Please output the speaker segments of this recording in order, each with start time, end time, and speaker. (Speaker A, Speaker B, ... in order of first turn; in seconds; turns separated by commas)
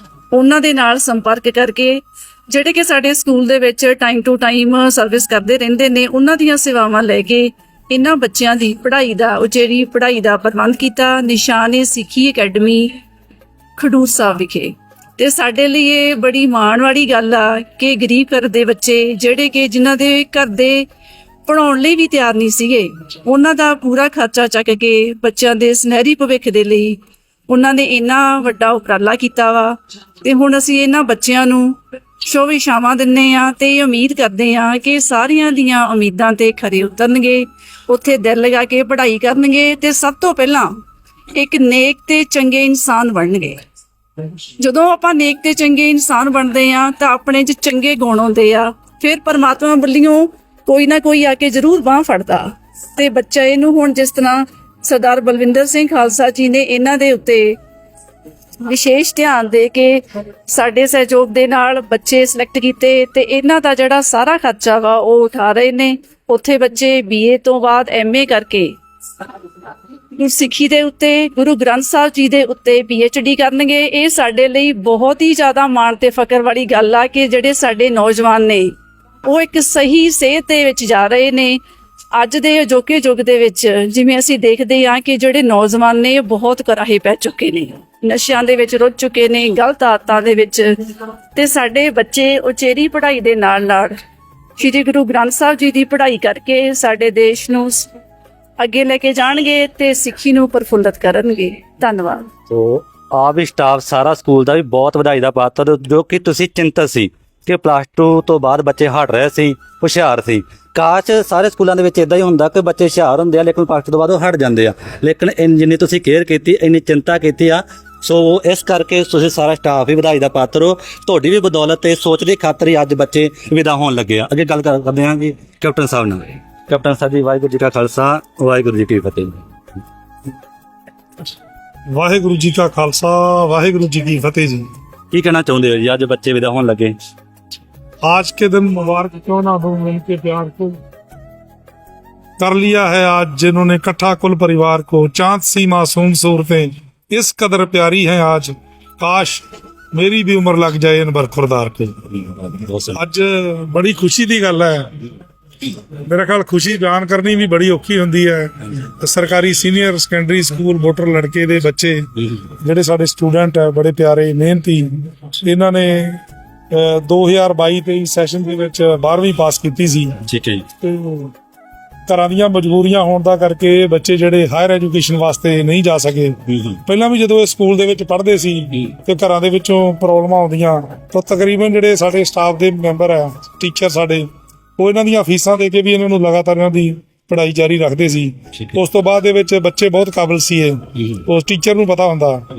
Speaker A: 0.3-13.0, Speaker A: 13.8-20.9, Speaker A: 21.5-40.8, Speaker A: 41.3-43.6, Speaker A: 44.6-57.6, Speaker A: 58.6-68.8, Speaker A: 70.2-81.6, Speaker A: 82.1-90.8, Speaker A: 91.3-94.0, Speaker A: 94.6-97.9, Speaker A: 98.6-102.2, Speaker B: 102.5-129.4, Speaker C: 131.9-134.7, Speaker B: 135.1-137.0, Speaker C: 138.0-140.8, Speaker C: 142.4-151.9, Speaker B: 152.5-153.0, Speaker C: 152.9-154.9, Speaker C: 156.0-162.0, Speaker C: 162.6-166.2, Speaker C: 166.7-170.2, Speaker B: 170.3-170.7, Speaker C: 170.8-171.3, Speaker C: 172.1-184.2, Speaker B: 176.5-176.8, Speaker C: 184.8-192.4